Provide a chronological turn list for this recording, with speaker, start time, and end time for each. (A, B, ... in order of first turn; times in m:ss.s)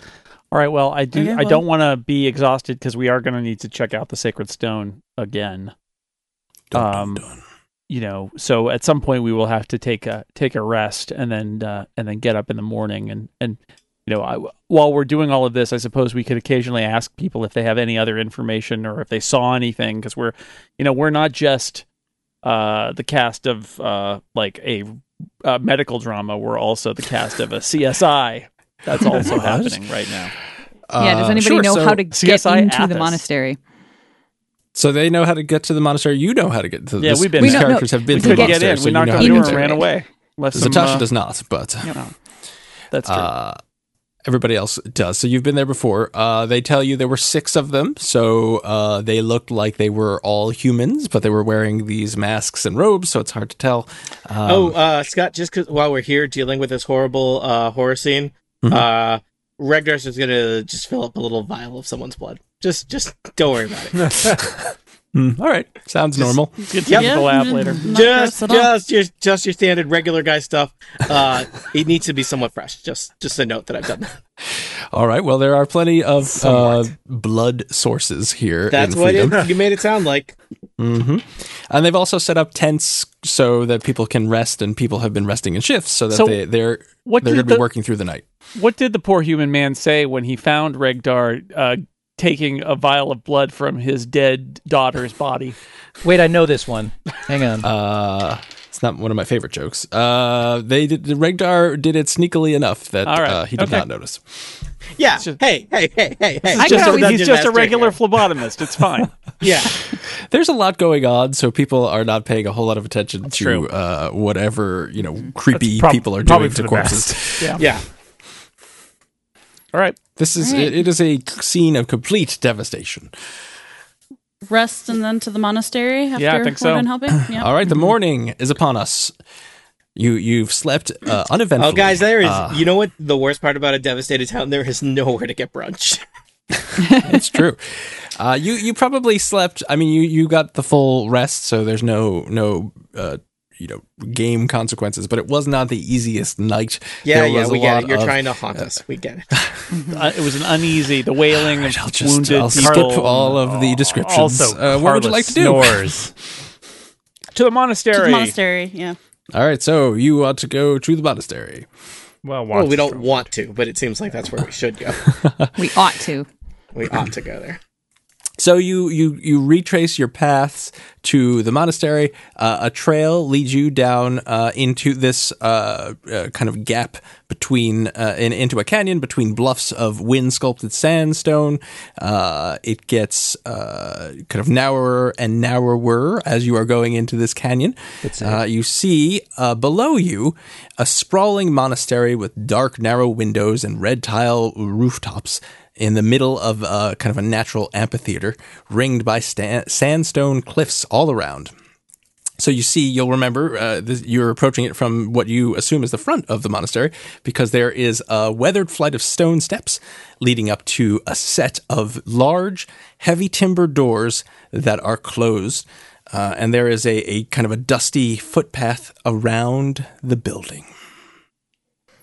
0:00.5-0:05.7 A
0:01.1-0:01.6 B
0:06.7-0:07.4 C
0:06.7-0:07.2 A
0:07.9-0:21.8 A
0:22.4-0:30.3 A
0:29.1-0:29.8 C
0:30.9-0:32.0 C
0:31.0-0:33.6 D
0:32.1-0:33.2 A
0:34.8-0:39.8 C
0:37.0-0:41.1 A
0:37.4-0:38.6 D
0:39.2-0:39.9 D
0:40.5-0:42.0 C
0:42.9-0:43.3 A
0:43.0-0:43.6 C
0:44.2-0:54.8 C
0:54.5-1:04.2 E
1:04.1-1:04.4 F
1:04.4-1:06.6 C
1:06.2-1:08.0 A
1:06.9-1:08.7 B
1:07.9-1:14.2 E
1:14.5-1:19.5 C
1:18.7-1:20.4 E
1:20.8-1:28.2 C
1:26.1-1:26.4 A
1:27.0-1:27.6 A
1:28.6-1:35.6 A
1:36.0-1:37.7 G
1:37.6-1:44.4 C
1:43.0-1:43.8 A
1:45.0-1:48.0 E
1:46.5-1:49.1 A
1:46.6-1:47.2 D
1:49.4-1:49.7 E
1:49.9-1:57.7 C
1:53.3-1:53.7 A
1:55.6-1:57.2 F
1:57.6-1:57.8 E
2:00.2-2:03.1 C
2:04.5-2:07.5 B
2:06.2-2:06.9 A
2:07.3-2:09.1 C
2:10.0-2:12.6 C
2:11.6-2:16.0 E
2:16.7-2:28.8 C
2:27.0-2:29.3 E
2:29.7-2:30.0 D
2:29.9-2:33.2 A
2:31.3-2:36.0 C
2:32.6-2:36.1 F
2:37.3-2:38.4 A
2:37.9-2:39.0 B
2:39.3-2:41.7 C
2:42.2-2:43.3 F
2:42.5-2:45.0 E
2:45.6-2:46.3 D
2:46.7-2:47.6 E
2:48.4-3:21.5 C
3:08.0-3:08.4 G
3:22.4-3:40.7 C